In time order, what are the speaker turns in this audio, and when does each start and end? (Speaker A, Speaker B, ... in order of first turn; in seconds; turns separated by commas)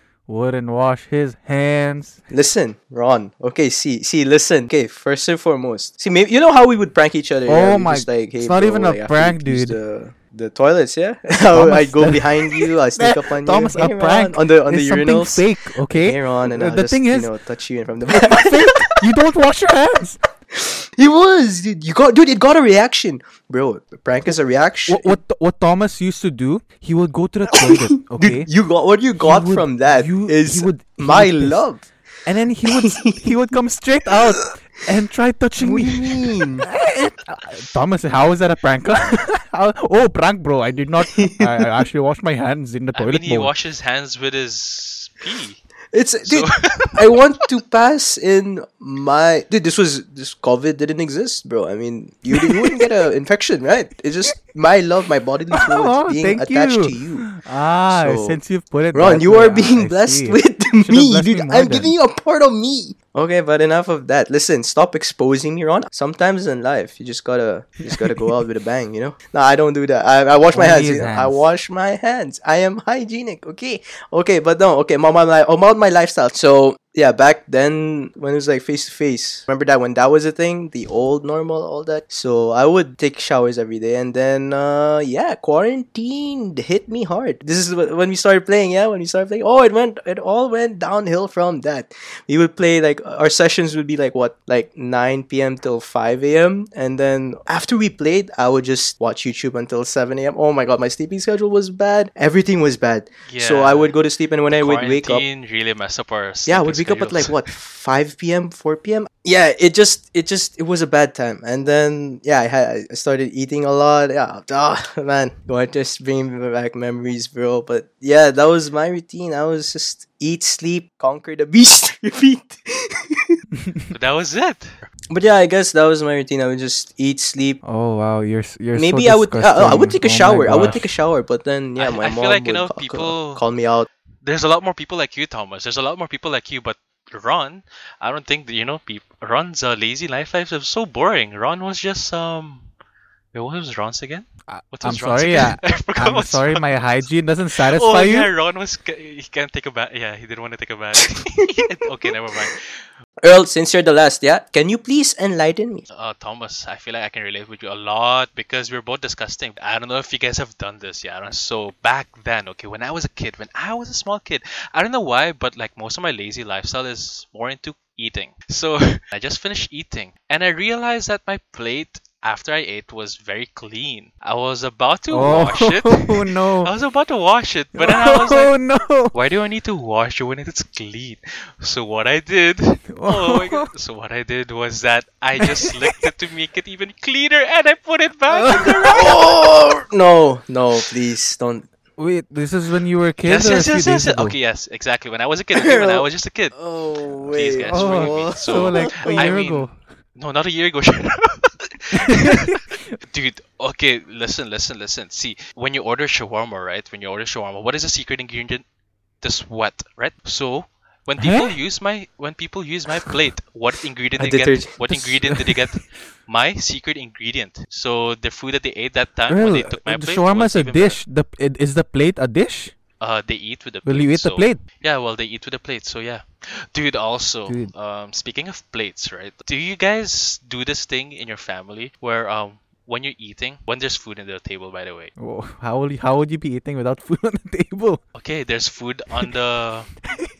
Speaker A: 0.3-2.2, Speaker B: 2.3-18.9, Speaker A: 7.5-9.8, Speaker A: 11.5-17.3, Speaker A: 18.1-20.2, Speaker B: 20.5-25.2, Speaker A: 24.9-28.5, Speaker B: 27.6-31.9, Speaker A: 29.2-31.6, Speaker A: 32.3-43.5, Speaker B: 32.6-33.3, Speaker B: 35.6-36.7, Speaker B: 41.0-41.8, Speaker C: 43.0-45.6, Speaker B: 45.9-57.3, Speaker C: 46.2-47.5, Speaker A: 52.3-52.8, Speaker A: 55.6-61.9, Speaker B: 57.9-58.4, Speaker B: 58.9-105.3, Speaker A: 67.8-68.4, Speaker A: 70.5-71.5, Speaker C: 103.3-104.0, Speaker C: 104.5-107.3, Speaker B: 106.5-123.3, Speaker C: 123.9-124.9, Speaker B: 125.1-127.6, Speaker A: 127.6-130.8, Speaker B: 128.7-133.9, Speaker C: 130.5-130.8, Speaker C: 131.8-133.4, Speaker C: 134.2-142.7, Speaker C: 143.3-152.8, Speaker A: 144.5-148.3, Speaker B: 153.2-155.8, Speaker C: 155.9-178.6, Speaker A: 175.1-176.7, Speaker A: 177.8-179.1, Speaker C: 179.1-189.4, Speaker A: 182.9-183.7, Speaker A: 185.4-186.1, Speaker B: 188.4-191.7, Speaker A: 192.0-194.4, Speaker C: 193.2-196.6, Speaker B: 195.5-199.4, Speaker C: 197.2-208.6, Speaker A: 197.6-199.8, Speaker A: 202.3-202.6, Speaker C: 209.2-221.0, Speaker A: 211.2-211.6, Speaker B: 214.2-214.8, Speaker A: 214.9-215.6, Speaker A: 219.3-222.7, Speaker C: 223.0-235.1, Speaker A: 223.8-224.6, Speaker A: 227.5-227.7, Speaker A: 235.2-238.0, Speaker C: 238.2-239.9